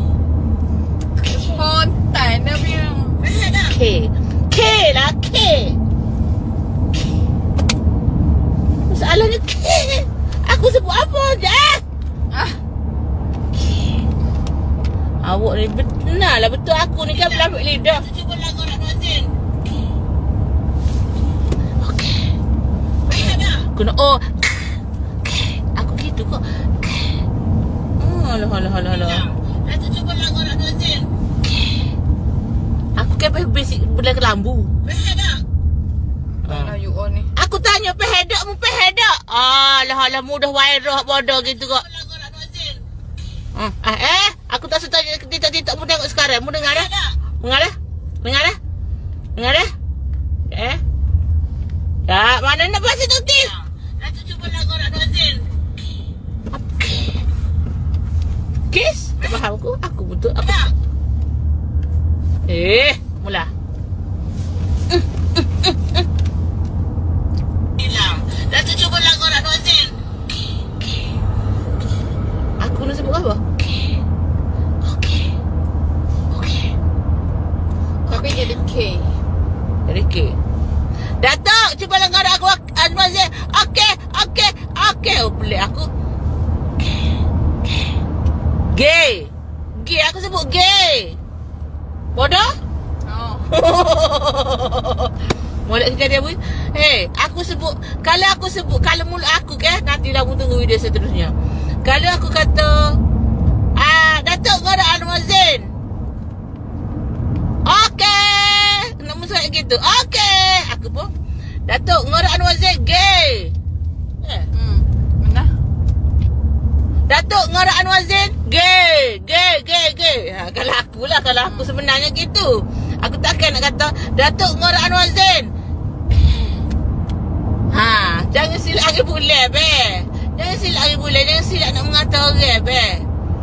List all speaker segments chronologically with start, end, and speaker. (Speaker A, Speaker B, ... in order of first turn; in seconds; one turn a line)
Speaker A: 1.2-3.2
Speaker B: 3.2-3.7
Speaker C: 3.6-5.8
Speaker C: 8.9-11.8
Speaker A: 12.3-12.6
Speaker C: 15.2-18.1
Speaker B: 18.0-19.3
Speaker C: 21.8-22.2
Speaker B: 23.1-23.6
Speaker C: 23.1-27.0
Speaker C: 28.0-29.3
Speaker B: 29.5-31.1
Speaker C: 33.0-34.7
Speaker B: 34.8-35.4
Speaker A: 36.4-37.3
Speaker C: 36.5-36.7
Speaker C: 37.4-41.8
Speaker B: 41.8-42.8
Speaker C: 43.5-48.5
Speaker C: 49.4-49.7
Speaker C: 50.5-50.8
Speaker C: 52.1-53.5
Speaker B: 54.0-55.5
Speaker C: 56.5-57.1
Speaker C: 58.7-60.6
Speaker C: 62.5-63.5
Speaker C: 65.4-65.7
Speaker B: 67.8-70.0
Speaker C: 72.6-73.5
Speaker C: 74.8-75.2
Speaker C: 76.3-76.7
Speaker A: 78.0-79.1
Speaker C: 79.9-80.3
Speaker C: 81.2-85.9
Speaker C: 88.7-91.2
Speaker C: 92.1-92.5
Speaker A: 93.0-93.5
Speaker C: 93.5-95.1
Speaker C: 95.7-101.3
Speaker C: 101.8-103.0
Speaker C: 103.8-105.7
Speaker C: 107.7-111.1
Speaker C: 111.7-113.5
Speaker C: 114.2-114.5
Speaker A: 114.5-115.5
Speaker C: 117.1-125.5
Speaker A: 121.4-121.7
Speaker C: 127.7-133.1